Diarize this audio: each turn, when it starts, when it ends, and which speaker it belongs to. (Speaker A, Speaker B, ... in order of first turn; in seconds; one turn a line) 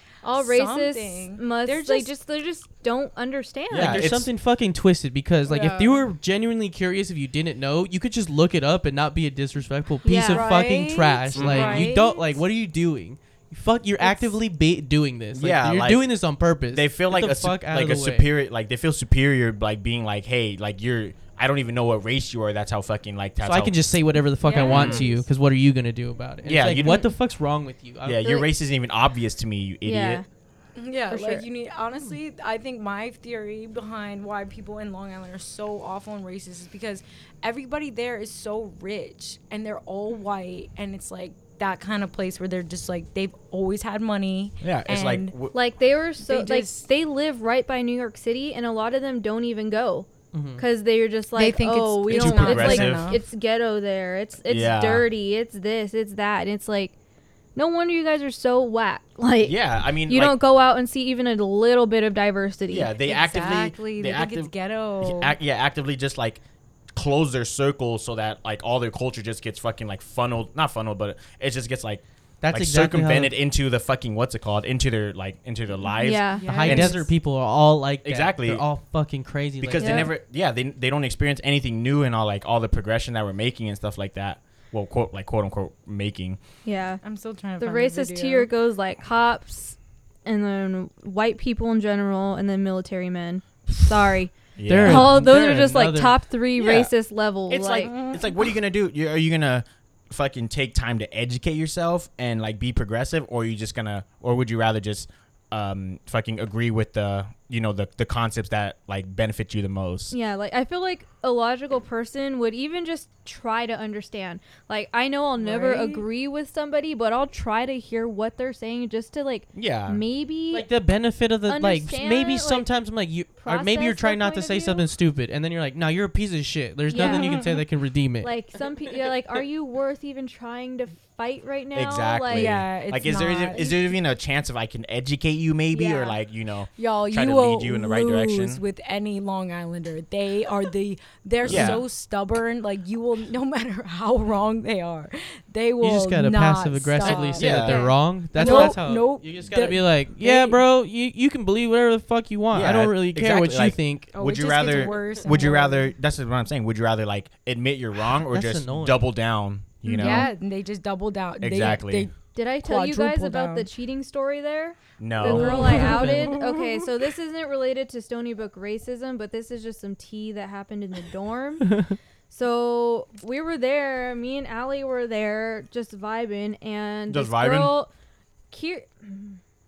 Speaker A: 0.2-2.1
Speaker B: 0.2-4.1
Speaker C: 3.7-4.3
Speaker D: 3.7-18.3
Speaker B: 5.5-6.0
Speaker B: 10.0-10.7
Speaker A: 10.2-12.2
Speaker C: 11.3-11.9
Speaker C: 15.3-16.1
Speaker C: 16.7-23.9
Speaker D: 23.4-28.3
Speaker A: 24.4-25.2
Speaker C: 24.6-25.1
Speaker C: 26.4-27.1
Speaker C: 28.0-30.2
Speaker B: 29.8-30.2
Speaker A: 30.8-45.4
Speaker B: 31.1-31.4
Speaker C: 44.6-45.5
Speaker B: 45.5-56.9
Speaker A: 46.2-46.9
Speaker D: 50.3-50.6
Speaker A: 51.3-53.2
Speaker C: 52.1-53.2
Speaker C: 54.5-55.0
Speaker B: 57.5-62.9
Speaker C: 59.4-60.4
Speaker C: 62.7-66.4
Speaker A: 63.0-65.3
Speaker C: 66.9-77.0
Speaker D: 72.4-73.4
Speaker B: 76.0-76.5
Speaker A: 76.3-77.1
Speaker D: 76.5-80.1
Speaker C: 78.0-78.6
Speaker C: 79.6-86.4
Speaker B: 79.8-80.1
Speaker B: 86.6-87.0
Speaker A: 87.0-88.5
Speaker B: 87.6-97.9
Speaker C: 94.6-95.3
Speaker D: 94.7-96.2
Speaker C: 96.6-96.9
Speaker C: 97.5-110.1
Speaker A: 97.8-98.4
Speaker B: 110.1-120.7
Speaker A: 115.4-116.0
Speaker C: 119.5-120.0
Speaker D: 120.5-128.3
Speaker B: 121.5-122.7
Speaker B: 123.4-124.9
Speaker B: 126.9-127.3
Speaker A: 126.9-127.6
Speaker B: 128.2-132.6
Speaker C: 131.7-138.6
Speaker A: 132.3-133.9
Speaker A: 135.7-136.1
Speaker A: 136.8-150.6
Speaker D: 141.4-141.8
Speaker C: 141.4-141.8
Speaker D: 145.8-154.1
Speaker B: 147.0-147.3
Speaker C: 147.0-148.8
Speaker B: 148.4-148.7
Speaker C: 152.5-160.3
Speaker A: 154.1-155.9
Speaker D: 158.3-159.1
Speaker B: 159.8-160.3
Speaker A: 159.9-163.7
Speaker C: 161.4-162.1
Speaker B: 162.3-177.9
Speaker C: 165.0-166.0
Speaker D: 165.2-166.4
Speaker A: 165.4-166.6
Speaker D: 171.7-171.9
Speaker C: 177.1-177.7
Speaker B: 178.5-179.4